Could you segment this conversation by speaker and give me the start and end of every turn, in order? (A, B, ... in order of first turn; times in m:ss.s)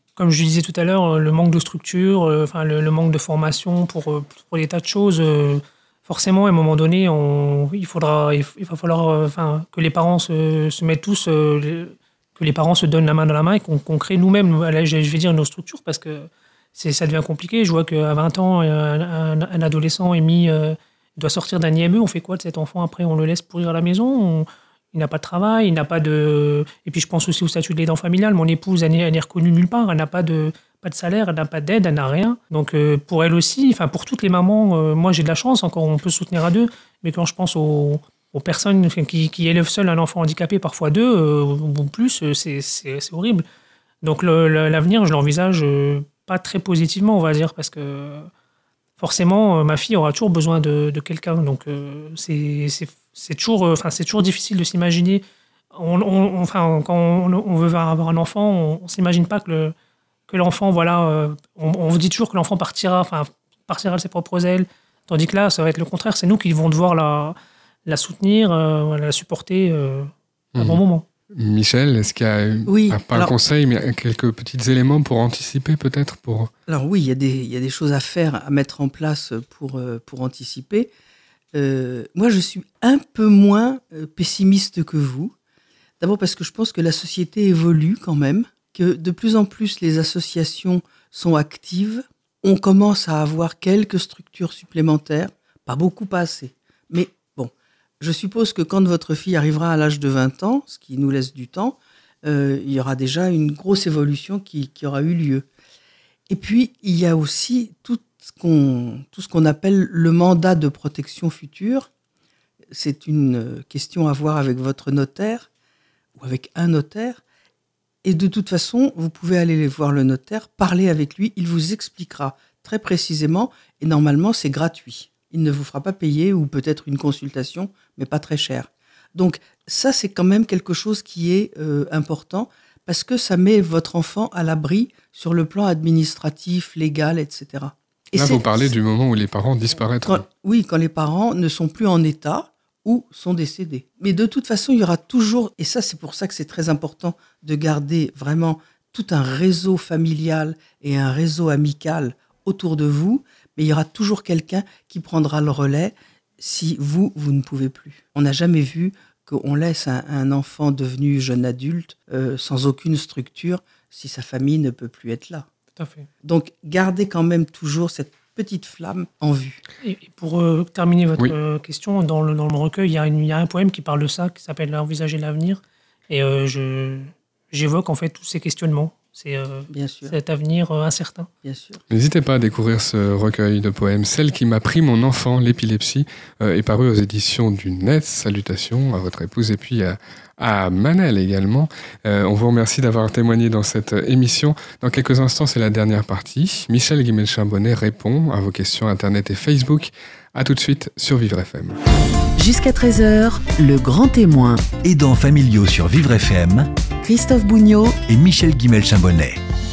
0:00.2-0:43.4 A
0:44.0-0:48.3 A
0:49.0-0:59.7 A
1:00.3-1:11.0 A
1:10.5-1:16.5 B
1:12.7-1:13.3 C
1:16.7-1:20.9 C
1:21.5-1:25.3 C
1:26.0-1:45.4 C
1:46.3-1:51.9 C
1:52.7-1:55.5 C
1:56.2-1:57.2 C
1:58.0-2:18.6 C
2:18.1-2:20.2 B
2:20.0-2:45.5 C
2:45.8-2:46.1 A
2:46.2-2:49.6 C
2:49.8-3:01.3 A
2:59.7-3:00.1 C
3:01.4-3:01.8 C
3:01.9-3:21.8 B
3:22.4-3:24.7 D
3:24.8-3:26.7 E
3:27.0-3:28.0 D
3:28.0-3:29.4 E